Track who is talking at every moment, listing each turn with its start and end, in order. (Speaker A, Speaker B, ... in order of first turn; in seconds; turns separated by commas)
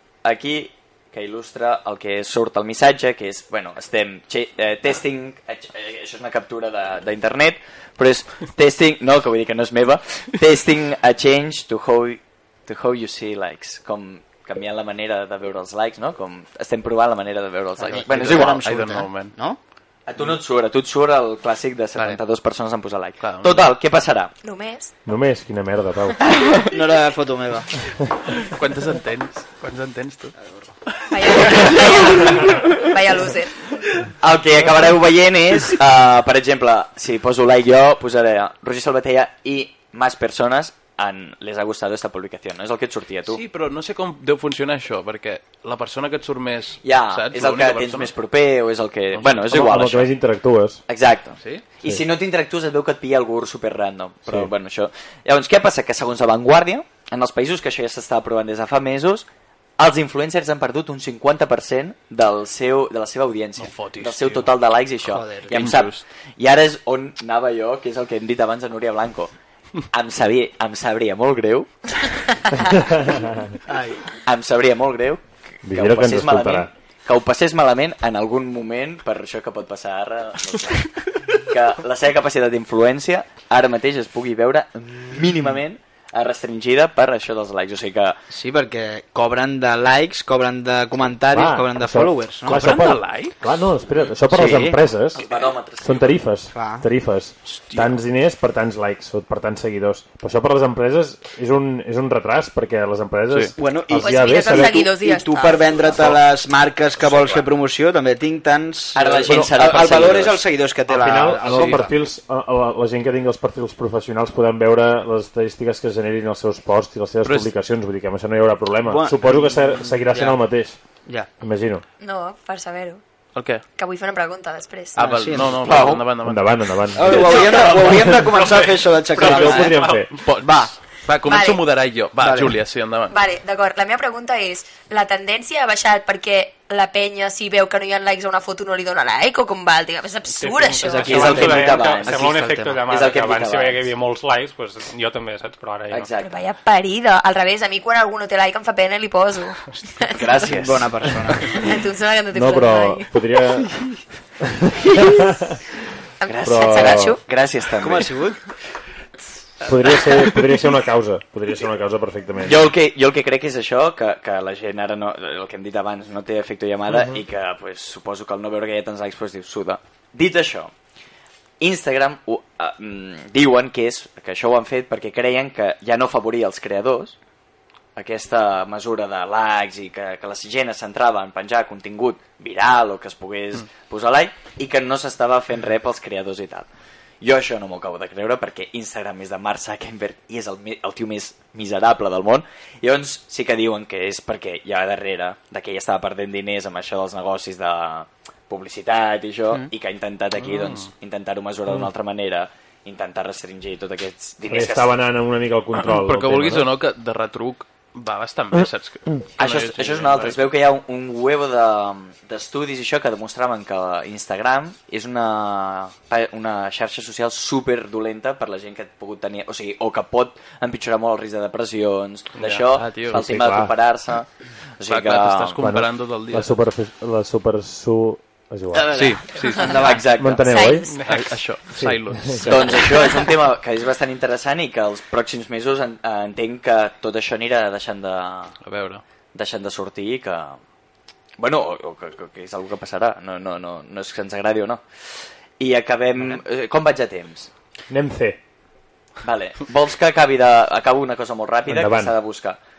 Speaker A: 0.2-18.7, Speaker B: 17.8-19.6, Speaker C: 18.1-19.4, Speaker A: 20.1-24.3, Speaker C: 23.2-23.7, Speaker D: 24.4-24.9, Speaker E: 25.1-26.2, Speaker B: 26.5-27.8, Speaker C: 28.3-30.4, Speaker B: 30.4-30.7, Speaker C: 30.9-32.1, Speaker D: 31.1-33.5, Speaker A: 31.6-32.8, Speaker A: 34.2-43.4, Speaker C: 43.3-48.1, Speaker A: 46.8-50.1, Speaker C: 49.1-49.4, Speaker E: 49.5-50.8, Speaker A: 50.9-59.3, Speaker A: 59.8-69.3, Speaker C: 63.6-64.5, Speaker C: 65.1-66.0, Speaker B: 65.1-65.7, Speaker A: 69.9-71.7, Speaker E: 72.8-73.5, Speaker B: 73.7-74.1, Speaker A: 74.3-80.9, Speaker E: 75.6-76.7, Speaker A: 81.5-88.2, Speaker B: 88.3-92.6, Speaker E: 91.3-95.2, Speaker C: 92.5-93.3, Speaker B: 94.3-94.8, Speaker A: 94.3-96.2, Speaker E: 95.8-104.9, Speaker B: 96.5-96.8, Speaker C: 97.5-98.0, Speaker B: 103.6-111.9, Speaker D: 104.0-105.9, Speaker C: 107.0-107.5, Speaker A: 109.0-110.5, Speaker E: 110.9-120.8, Speaker C: 111.5-111.8, Speaker C: 117.2-117.5, Speaker B: 118.8-120.4, Speaker E: 121.4-121.8, Speaker D: 122.0-123.0, Speaker C: 123.3-123.6, Speaker D: 123.8-125.0, Speaker C: 124.9-127.2, Speaker B: 125.0-125.9, Speaker A: 125.6-126.0, Speaker E: 126.2-128.3, Speaker B: 127.0-129.9, Speaker A: 127.1-129.8, Speaker E: 129.2-130.1, Speaker F: 129.8-130.0, Speaker C: 130.2-133.2, Speaker B: 130.4-130.7, Speaker D: 131.2-131.6, Speaker B: 132.2-132.5, Speaker D: 133.1-141.3, Speaker F: 140.3-146.1, Speaker B: 140.8-142.8, Speaker A: 140.8-143.9, Speaker A: 145.9-146.3, Speaker D: 146.2-150.5, Speaker A: 150.1-150.9, Speaker B: 150.5-151.6, Speaker D: 151.5-153.1, Speaker E: 152.3-153.7, Speaker E: 154.4-155.6, Speaker D: 154.9-155.2, Speaker D: 156.2-157.2, Speaker A: 156.3-158.1, Speaker E: 156.4-157.2, Speaker B: 157.8-158.4, Speaker E: 159.7-162.7, Speaker A: 162.4-170.7, Speaker A: 171.6-177.2, Speaker A: 178.0-186.7, Speaker A: 187.2-204.9, Speaker C: 200.4-200.9, Speaker E: 204.5-206.7, Speaker C: 205.8-210.4, Speaker E: 208.5-209.2, Speaker A: 209.4-225.6, Speaker C: 222.3-223.3, Speaker E: 223.1-223.7, Speaker C: 224.8-226.6, Speaker E: 225.6-229.0, Speaker C: 228.9-230.0, Speaker B: 228.9-230.0, Speaker A: 229.6-230.7, Speaker E: 230.2-230.9, Speaker D: 230.5-230.9, Speaker F: 230.9-231.2, Speaker C: 231.1-233.1, Speaker E: 231.8-232.5, Speaker A: 232.4-238.6, Speaker C: 238.7-239.0, Speaker A: 239.3-240.6, Speaker A: 241.4-244.8, Speaker A: 245.6-247.5, Speaker E: 247.9-248.4, Speaker A: 249.2-252.6, Speaker E: 251.7-252.1